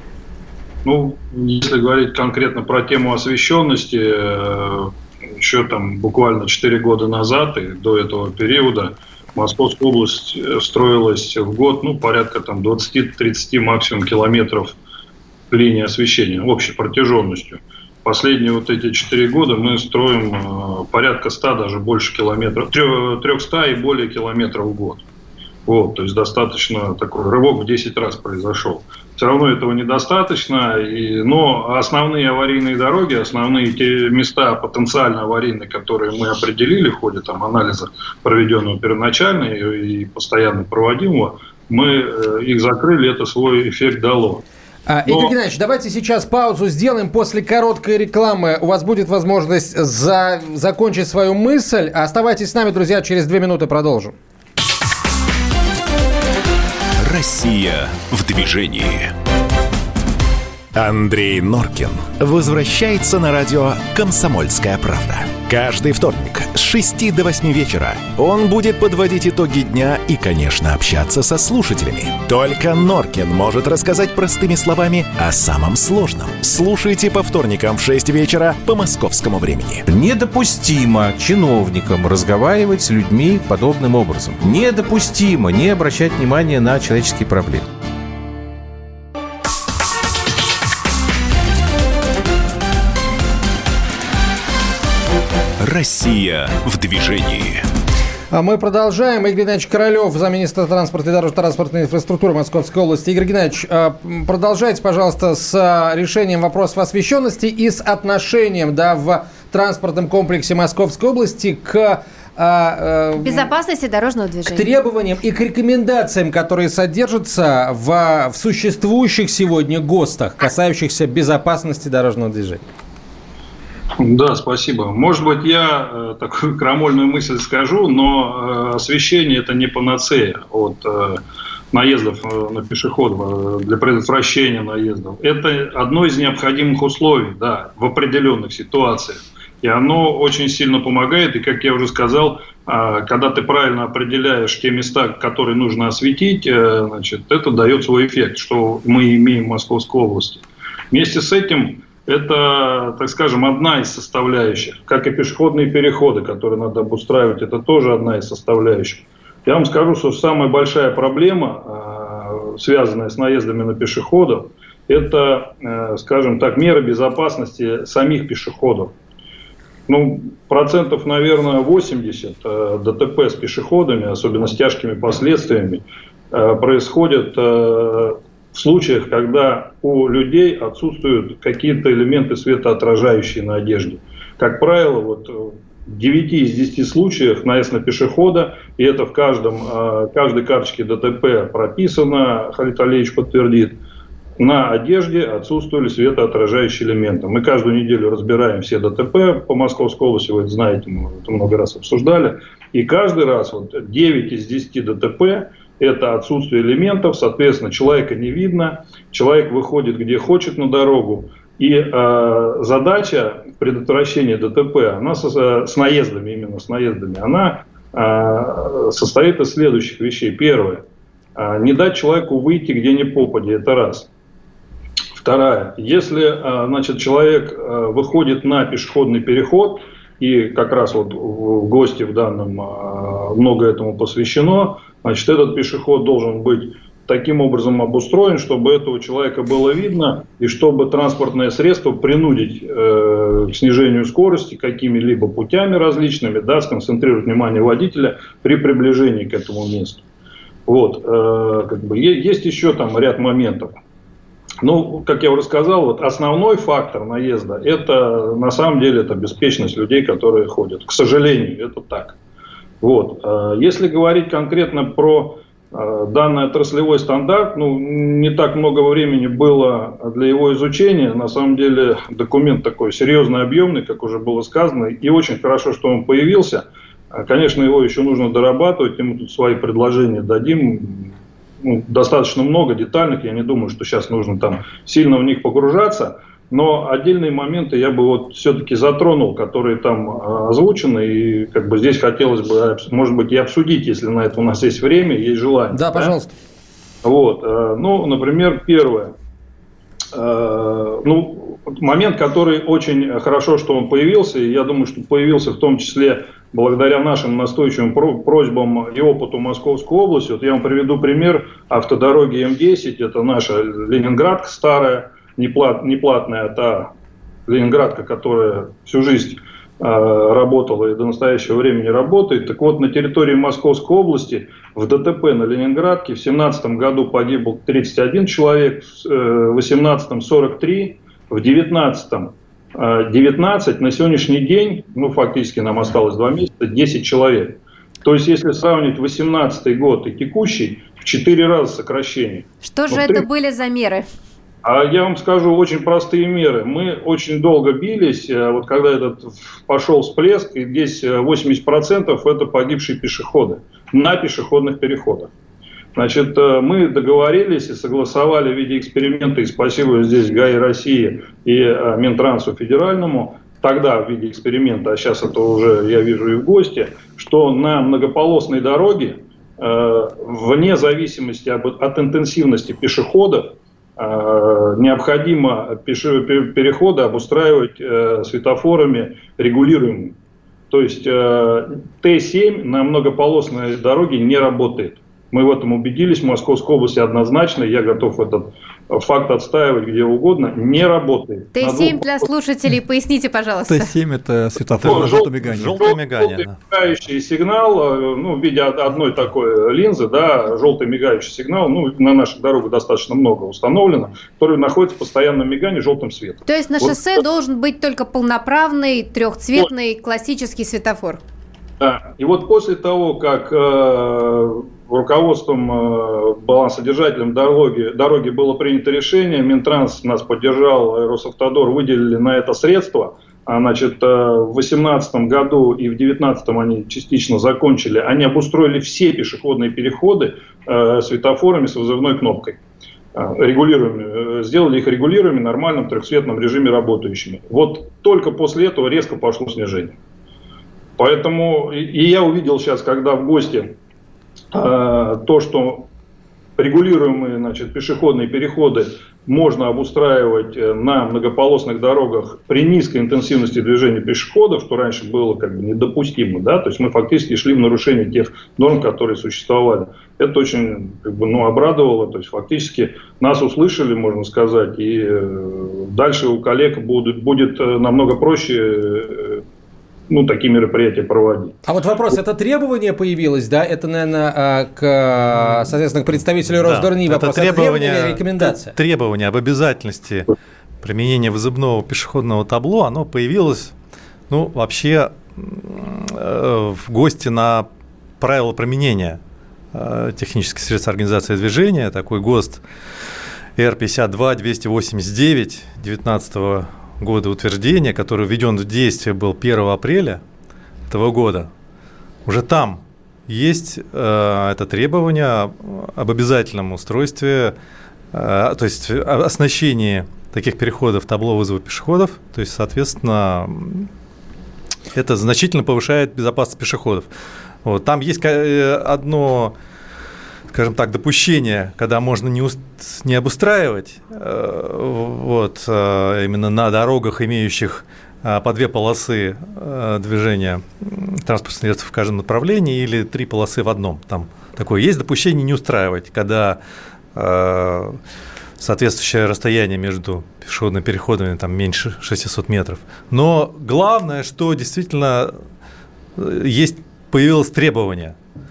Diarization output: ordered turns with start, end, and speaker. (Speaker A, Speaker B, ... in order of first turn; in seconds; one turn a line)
Speaker A: 0.8-14.8
Speaker A: 15.5-25.0
Speaker A: 25.6-44.4
Speaker B: 44.9-54.1
Speaker A: 45.0-45.3
Speaker C: 57.0-59.1
Speaker C: 60.7-79.8
Speaker D: 79.9-87.7
Speaker C: 95.6-97.7
Speaker B: 98.3-113.5
Speaker E: 113.2-114.7
Speaker B: 114.5-122.6
Speaker A: 124.0-131.2
Speaker A: 131.7-168.9
Speaker A: 169.9-193.8
Speaker A: 194.4-220.8
Speaker A: 221.3-224.1
Speaker A: 225.2-250.0
Speaker A: 250.7-253.8
Speaker A: 254.6-262.2
Speaker A: 262.8-296.1
Speaker B: 295.7-296.3
Speaker A: 297.0-299.1
Speaker A: 300.1-316.9
Speaker A: 317.5-343.2
Speaker E: 342.6-344.1
Speaker A: 344.6-355.3
Speaker A: 355.9-380.1
Speaker A: 380.7-392.1
Speaker E: 391.5-393.9
Speaker F: 393.7-395.9
Speaker G: 394.8-396.6
Speaker A: 394.8-407.0
Speaker E: 406.4-411.2
Speaker A: 411.8-432.6
Speaker A: 433.1-440.0
Speaker A: 441.0-443.7
Speaker A: 444.5-445.9
Speaker A: 446.6-469.4
Speaker A: 470.1-471.6
Speaker B: 471.6-478.7
Speaker G: 476.6-480.3
Speaker G: 480.8-483.7
Speaker G: 484.3-487.7
Speaker G: 488.2-489.2
Speaker G: 489.7-492.6
Speaker G: 493.6-500.2
Speaker G: 500.9-501.5
Speaker G: 502.2-507.5
Speaker G: 508.1-513.9
Speaker G: 514.9-517.1
Speaker G: 517.6-519.5
Speaker G: 520.5-536.6
Speaker G: 537.1-538.0
Speaker G: 538.6-545.4
Speaker G: 546.2-548.1